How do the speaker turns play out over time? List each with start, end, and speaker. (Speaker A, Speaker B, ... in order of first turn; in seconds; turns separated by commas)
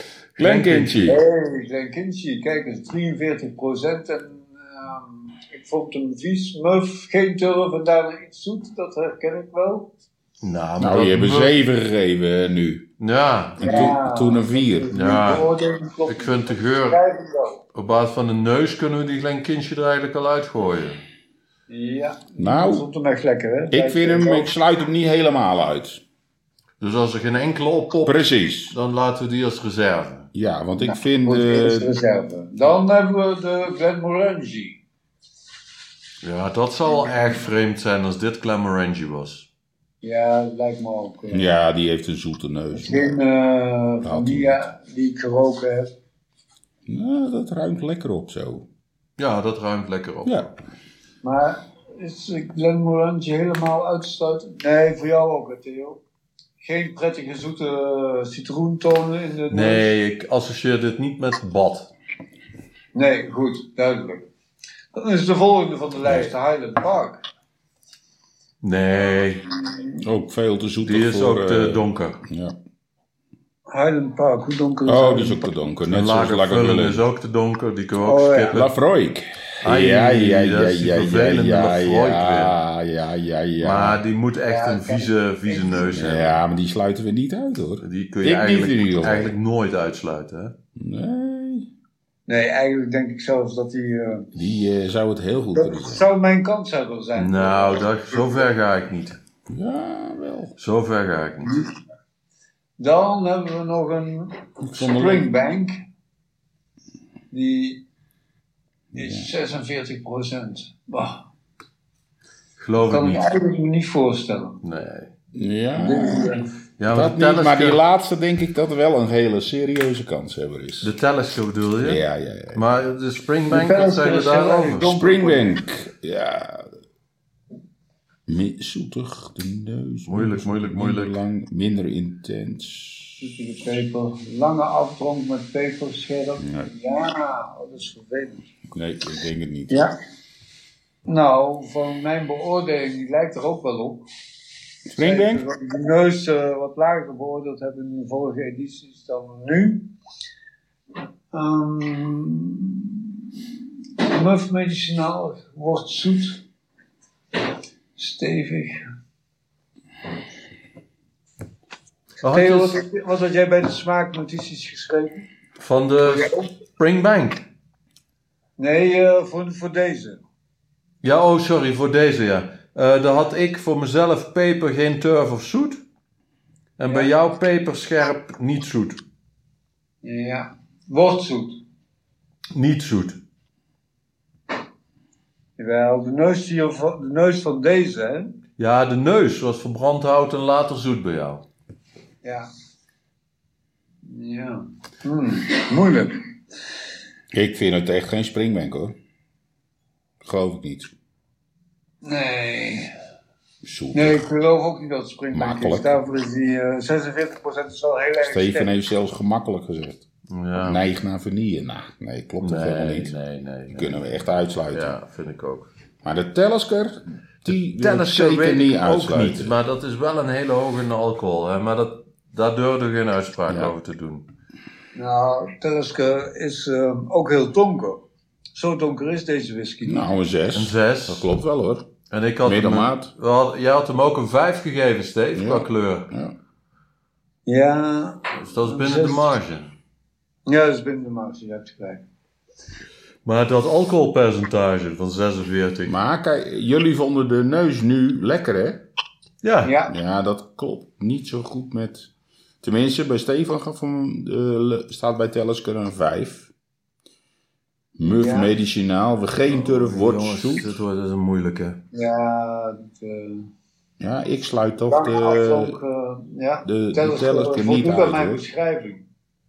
Speaker A: 0.4-1.1, Speaker B: 0.4-1.2, Speaker C: 1.1-9.9, Speaker A: 10.4-11.5, Speaker B: 10.8-12.9, Speaker A: 13.0-13.9, Speaker B: 13.6-14.9, Speaker C: 13.6-17.6, Speaker A: 14.9-15.5, Speaker A: 16.1-17.0, Speaker A: 17.7-21.0, Speaker C: 21.7-24.5, Speaker B: 22.4-22.9, Speaker B: 23.7-26.0, Speaker A: 26.8-30.3, Speaker B: 28.1-28.8, Speaker B: 30.3-31.9, Speaker C: 30.8-34.8, Speaker A: 36.2-39.5, Speaker C: 36.9-37.4, Speaker C: 40.0-41.5, Speaker B: 41.3-43.2, Speaker C: 42.7-45.9, Speaker B: 44.0-44.6, Speaker B: 46.9-48.7, Speaker A: 49.2-50.6, Speaker B: 50.2-50.5, Speaker C: 51.2-56.0, Speaker C: 56.6-59.9, Speaker A: 59.5-61.9, Speaker C: 62.9-64.3, Speaker C: 64.9-67.2, Speaker B: 66.0-66.3, Speaker A: 68.6-69.5, Speaker C: 69.5-70.0, Speaker B: 70.0-72.6, Speaker A: 70.8-72.2, Speaker C: 73.7-75.5, Speaker B: 74.9-77.0, Speaker A: 75.9-78.7, Speaker C: 78.0-78.6, Speaker B: 78.5-84.0, Speaker A: 79.6-82.6, Speaker A: 83.6-86.4, Speaker C: 84.5-85.9, Speaker B: 85.9-89.3, Speaker A: 87.8-90.6, Speaker B: 90.8-91.7, Speaker C: 92.3-94.3, Speaker B: 94.3-96.0, Speaker C: 95.5-98.5, Speaker A: 97.2-99.2, Speaker B: 99.5-100.5, Speaker A: 100.6-101.6, Speaker C: 101.4-101.7, Speaker C: 102.8-105.8, Speaker B: 104.7-105.3, Speaker C: 107.3-107.8, Speaker C: 108.9-111.2, Speaker B: 108.9-109.3, Speaker A: 112.6-113.3, Speaker C: 112.8-114.6, Speaker A: 114.6-115.1, Speaker B: 115.3-120.9, Speaker C: 115.8-116.5, Speaker A: 116.8-117.8, Speaker A: 120.8-122.0, Speaker B: 121.8-122.7, Speaker A: 122.5-124.9, Speaker C: 123.5-125.6, Speaker B: 124.8-126.7, Speaker B: 128.3-133.2, Speaker A: 130.1-131.2, Speaker C: 133.2-138.5, Speaker B: 136.4-136.7, Speaker B: 138.7-139.9, Speaker C: 139.7-139.9, Speaker C: 141.1-144.1, Speaker B: 144.9-145.4, Speaker C: 145.0-149.9, Speaker C: 151.3-153.3, Speaker C: 154.0-156.4, Speaker C: 158.0-158.8, Speaker A: 162.2-162.8, Speaker C: 162.2-165.3, Speaker A: 165.6-167.5, Speaker C: 166.0-166.5, Speaker C: 168.6-170.2, Speaker A: 171.0-175.8, Speaker A: 176.8-179.0, Speaker C: 176.9-177.1, Speaker C: 180.0-181.6, Speaker A: 182.5-183.2, Speaker C: 185.6-188.4, Speaker A: 188.6-191.5, Speaker C: 194.0-196.2, Speaker B: 197.3-199.0, Speaker B: 200.2-200.9, Speaker C: 202.0-202.9, Speaker B: 203.6-204.2, Speaker C: 203.9-208.7, Speaker B: 205.3-205.9, Speaker B: 208.2-210.1, Speaker A: 210.3-210.8, Speaker B: 210.6-213.1, Speaker A: 212.4-214.0, Speaker B: 213.7-215.0, Speaker A: 214.7-215.7, Speaker B: 216.0-219.5, Speaker A: 217.5-224.3, Speaker B: 223.5-223.7, Speaker C: 224.9-228.0, Speaker C: 228.5-230.1, Speaker B: 229.8-231.9, Speaker A: 230.5-231.3, Speaker A: 232.1-236.1, Speaker B: 232.4-233.1, Speaker B: 235.3-236.4, Speaker C: 237.5-239.3, Speaker A: 238.3-239.7, Speaker C: 240.5-242.0, Speaker A: 243.2-245.9, Speaker B: 245.9-248.9, Speaker A: 249.4-249.7, Speaker C: 249.6-250.0, Speaker B: 249.9-252.1, Speaker B: 252.6-256.5, Speaker B: 258.0-260.8, Speaker C: 258.1-258.5, Speaker A: 259.5-261.8, Speaker C: 261.9-263.5, Speaker B: 264.0-265.8, Speaker C: 264.9-269.0, Speaker B: 266.7-268.4